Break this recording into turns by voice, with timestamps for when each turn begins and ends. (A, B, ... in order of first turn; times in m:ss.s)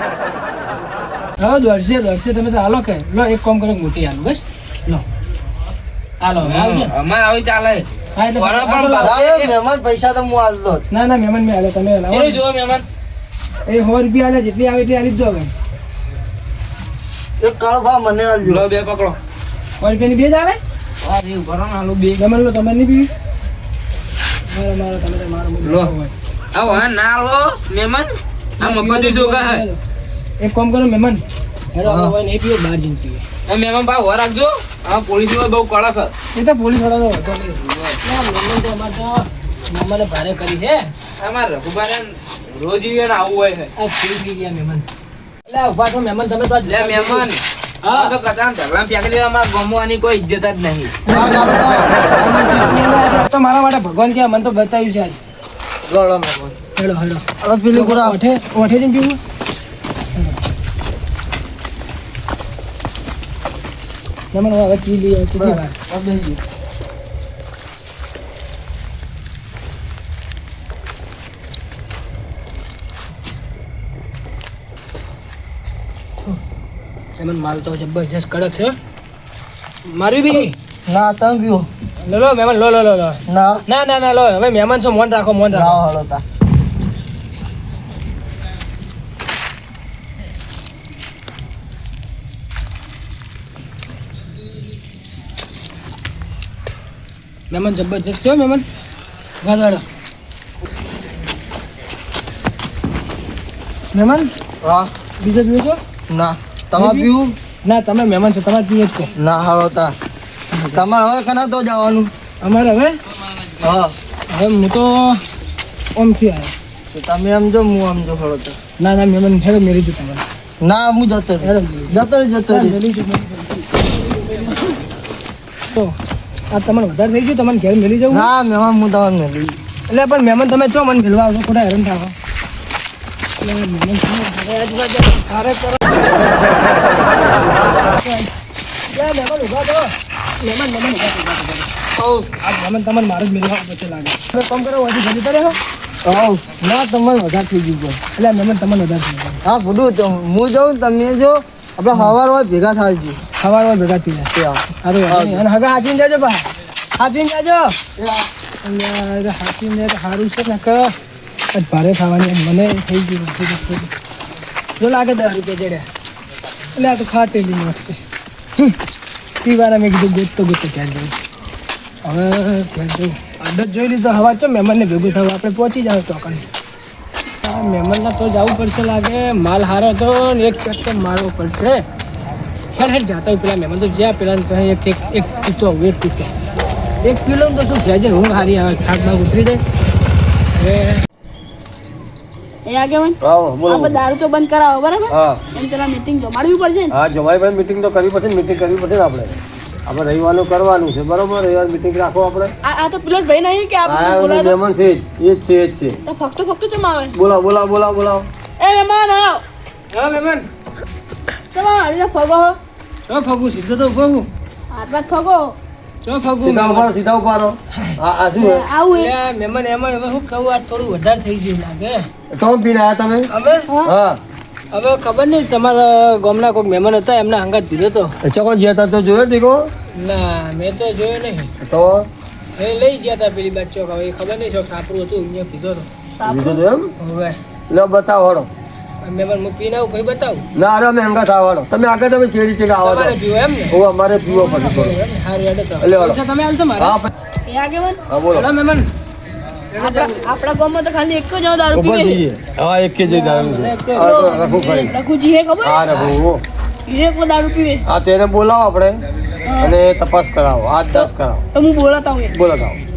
0:01.4-0:05.0 A
0:06.2-0:06.9 A
0:06.4-0:09.5 B
0:08.1-0:09.1 A
0:09.0-0:10.8 C
0:10.9-0:12.4 A
0:12.1-0:12.8 B
0:13.6-0:15.5 A
0:17.4-0:18.6 C
0:18.4-0:19.2 B
0:19.8-0:20.6 A
0:21.0-0:22.2 B
0:22.2-0:23.1 A
0:24.5-0:26.1 A
0:25.6-0:25.9 B
0:26.5-0:29.6 B
0:28.6-0:29.8 A
0:30.4-0:31.2 A
0:31.7-0:33.2 A
0:31.8-0:32.1 C
0:33.4-0:36.1 B
0:36.3-0:40.9 A
0:37.6-0:38.0 B
0:41.2-0:43.7 B
0:43.8-0:44.8 A
0:45.5-0:47.3 A
0:46.7-0:50.9 B
0:47.8-0:48.1 A
0:51.1-0:51.6 A
0:51.1-0:52.8 C
0:52.7-0:55.2 A
0:55.9-0:56.5 D
0:56.8-0:59.2 A
0:57.4-0:58.2 C
1:04.3-1:05.7 A
1:05.4-1:06.4 C
1:17.2-1:18.7 A
1:19.9-1:20.5 A
1:20.9-1:21.7 C
1:22.0-1:25.8 A
1:23.3-1:23.6 C
1:25.5-1:26.2 C
1:37.5-1:38.6 A
1:39.4-1:39.8 A
1:43.9-1:44.3 A
1:44.6-1:44.9 C
1:45.2-1:45.8 A
1:46.1-1:47.3 C
1:46.7-1:47.1 A
1:47.6-1:49.1 A
1:49.2-1:49.9 C
1:50.7-1:52.1 C
1:52.4-1:53.0 A
1:53.6-1:53.9 C
1:54.3-1:55.2 A
1:55.9-1:56.5 A
1:56.9-1:58.6 C
1:58.8-2:00.2 A
2:00.6-2:02.8 C
2:01.4-2:04.5 A
2:06.5-2:08.3 A
2:08.1-2:09.6 C
2:09.9-2:12.1 A
2:13.4-2:16.0 A
2:18.0-2:18.3 A
2:18.9-2:19.9 A
2:20.4-2:21.7 A
2:22.4-2:25.6 A
2:26.0-2:28.0 C
2:28.1-2:29.4 A
2:29.4-2:33.2 C
2:33.4-2:34.3 A
2:34.3-2:35.4 C
2:34.8-2:37.7 A
2:38.0-2:38.3 C
2:38.6-2:40.9 A
2:41.5-2:43.9 A
2:44.8-2:45.9 A
2:46.7-2:48.0 A
2:49.4-2:51.1 A
2:52.0-2:56.4 A
2:57.4-3:01.8 A
3:02.7-3:06.3 A
3:07.0-3:09.6 A
3:10.5-3:11.0 A
3:12.6-3:16.9 E
3:13.2-3:14.0 D
3:15.1-3:15.4 D
3:16.9-3:19.4 D
3:19.9-3:22.5 D
3:22.6-3:24.6 E
3:23.8-3:26.0 D
3:26.1-3:27.1 E
3:27.1-3:28.2 D
3:28.6-3:29.4 E
3:29.9-3:30.5 A
3:31.5-3:32.6 E
3:33.1-3:34.3 A
3:34.7-3:35.5 E
3:36.0-3:36.9 A
3:36.4-3:38.7 D
3:38.4-3:39.1 E
3:38.9-3:42.1 A
3:42.3-3:43.2 D
3:43.3-3:43.7 A
3:43.7-3:43.9 E
3:43.8-3:44.2 D
3:44.7-3:48.1 A
3:48.2-3:49.7 D
3:49.9-3:51.5 A
3:51.6-3:52.1 D
3:52.6-3:55.9 A
3:56.2-3:56.6 E
3:56.2-3:56.9 D
3:57.0-3:57.4 A
3:57.7-3:58.5 D
3:59.0-4:00.4 A
4:00.5-4:03.2 D
4:02.8-4:03.8 A
4:03.7-4:05.0 D
4:04.3-4:07.0 A
4:04.4-4:04.7 E
4:05.8-4:06.2 D
4:06.8-4:07.1 D
4:07.5-4:08.0 E
4:08.1-4:08.5 D
4:08.3-4:08.9 A
4:09.7-4:10.3 A
4:09.8-4:12.2 E
4:11.7-4:14.9 D
4:13.0-4:14.8 A
4:14.0-4:15.9 E
4:15.6-4:16.4 D
4:16.9-4:17.8 E
4:17.9-4:19.0 D
4:19.4-4:19.8 E
4:19.6-4:21.4 D
4:20.9-4:22.3 E
4:22.3-4:22.8 D